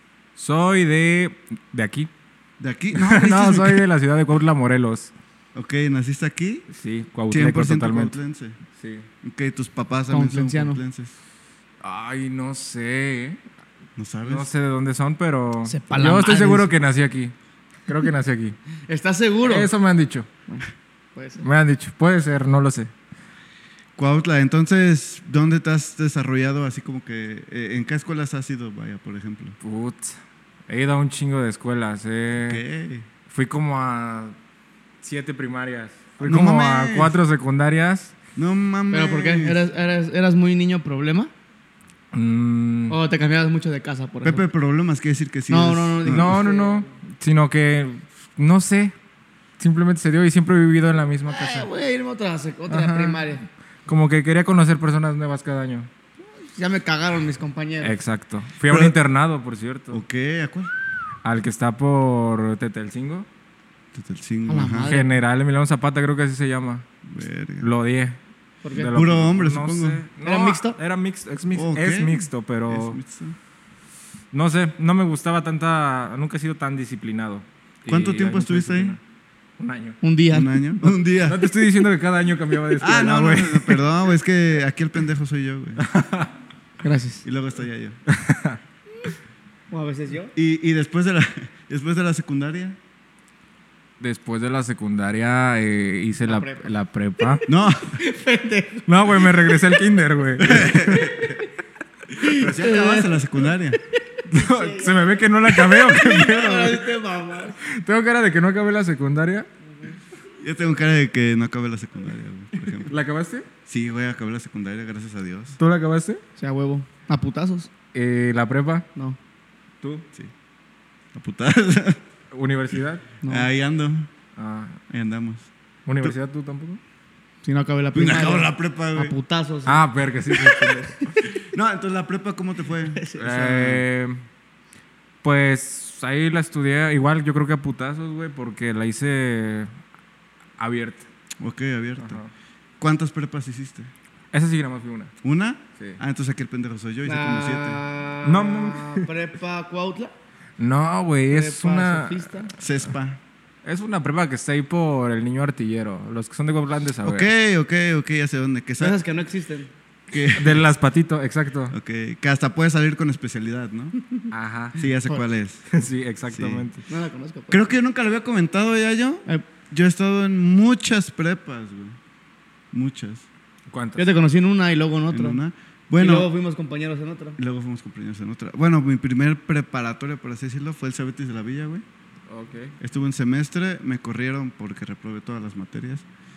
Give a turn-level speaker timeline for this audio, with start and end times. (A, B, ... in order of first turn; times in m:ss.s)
0:00.4-0:02.1 A
0:02.6-0:03.8 B
0:03.0-0:05.1 A
0:05.6-0:06.7 B
0:06.7-0:08.2 A
0:07.3-0:08.6 B
0:08.8-0:09.1 A
0:09.2-0:11.2 B
0:10.1-0:10.8 C
0:11.8-0:13.4 A
0:14.0-0:14.5 B
0:14.2-0:17.3 A
0:15.6-0:16.7 C
0:17.9-0:18.6 A
0:18.9-0:19.7 C
0:19.4-0:20.3 A
0:20.5-0:21.5 C
0:21.4-0:22.9 A
0:24.0-0:29.6 B
0:29.6-0:30.2 A
0:30.7-0:32.6 A
0:32.4-0:33.1 B
0:33.3-0:34.4 A
0:35.0-0:38.2 A
0:36.2-0:37.2 B
0:38.4-0:39.6 B
0:38.9-0:41.3 C
0:42.1-0:43.0 A
0:42.9-0:44.4 C
0:44.2-0:46.4 B
0:45.5-0:46.9 C
0:46.0-0:48.9 A
0:49.6-0:51.7 A
0:51.3-0:53.4 C
0:52.7-0:55.9 A
0:56.4-0:58.0 C
0:57.8-1:00.0 A
0:58.7-0:59.0 B
0:59.9-1:00.7 B
1:01.2-1:03.3 A
1:03.9-1:04.9 B
1:04.5-1:05.2 C
1:04.8-1:06.9 A
1:07.1-1:07.7 B
1:07.6-1:08.2 A
1:08.6-1:09.0 C
1:08.7-1:13.0 A
1:08.9-1:10.0 B
1:10.2-1:10.8 C
1:11.6-1:13.4 B
1:14.3-1:19.0 A
1:17.9-1:19.0 B
1:19.6-1:20.0 A
1:20.0-1:20.6 C
1:20.3-1:21.5 B
1:21.2-1:23.8 A
1:22.8-1:25.9 B
1:25.8-1:26.3 A
1:26.8-1:27.2 C
1:27.2-1:28.0 B
1:28.1-1:28.6 A
1:29.7-1:30.3 C
1:30.4-1:32.8 B
1:34.0-1:37.4 A
1:36.3-1:36.7 C
1:37.5-1:38.0 B
1:38.0-1:39.5 C
1:38.9-1:41.2 A
1:40.4-1:41.4 B
1:42.2-1:43.3 C
1:42.2-1:43.8 B
1:44.3-1:46.9 A
1:44.3-1:47.6 C
1:47.6-1:49.5 A
1:50.4-1:53.0 B
1:52.8-1:53.5 A
1:53.7-1:55.6 B
1:55.6-1:56.2 A
1:56.4-1:57.7 C
1:57.9-1:58.9 A
2:01.2-2:02.0 B
2:02.3-2:03.0 A
2:03.2-2:03.5 C
2:03.3-2:04.1 B
2:04.4-2:04.8 A
2:04.9-2:05.5 B
2:05.9-2:06.8 A
2:07.4-2:10.9 C
2:07.9-2:09.2 B
2:09.7-2:11.0 A
2:11.4-2:13.8 B
2:12.9-2:13.2 C
2:13.2-2:14.2 A
2:15.2-2:19.7 A
2:20.6-2:21.1 A
2:21.4-2:22.2 B
2:22.0-2:22.3 A
2:22.8-2:23.9 B
2:24.3-2:25.2 A
2:25.2-2:27.8 B
2:27.0-2:30.2 C
2:28.2-2:29.1 A
2:30.6-2:32.5 A
2:31.3-2:32.5 C
2:32.6-2:33.2 B
2:33.6-2:37.3 A
2:37.0-2:39.0 B
2:38.8-2:39.7 C
2:40.1-2:40.7 B
2:40.4-2:41.8 A
2:41.7-2:44.0 B
2:44.3-2:44.9 A
2:44.8-2:45.7 B
2:45.7-2:46.9 A
2:46.3-2:46.7 B
2:46.9-2:47.7 C
2:47.5-2:52.0 B
2:52.7-2:53.3 B
2:53.7-2:54.1 A
2:54.0-2:55.4 C
2:55.1-2:56.3 B
2:56.0-2:57.4 C
2:57.4-3:01.8 B
3:02.3-3:02.7 A
3:02.8-3:06.0 B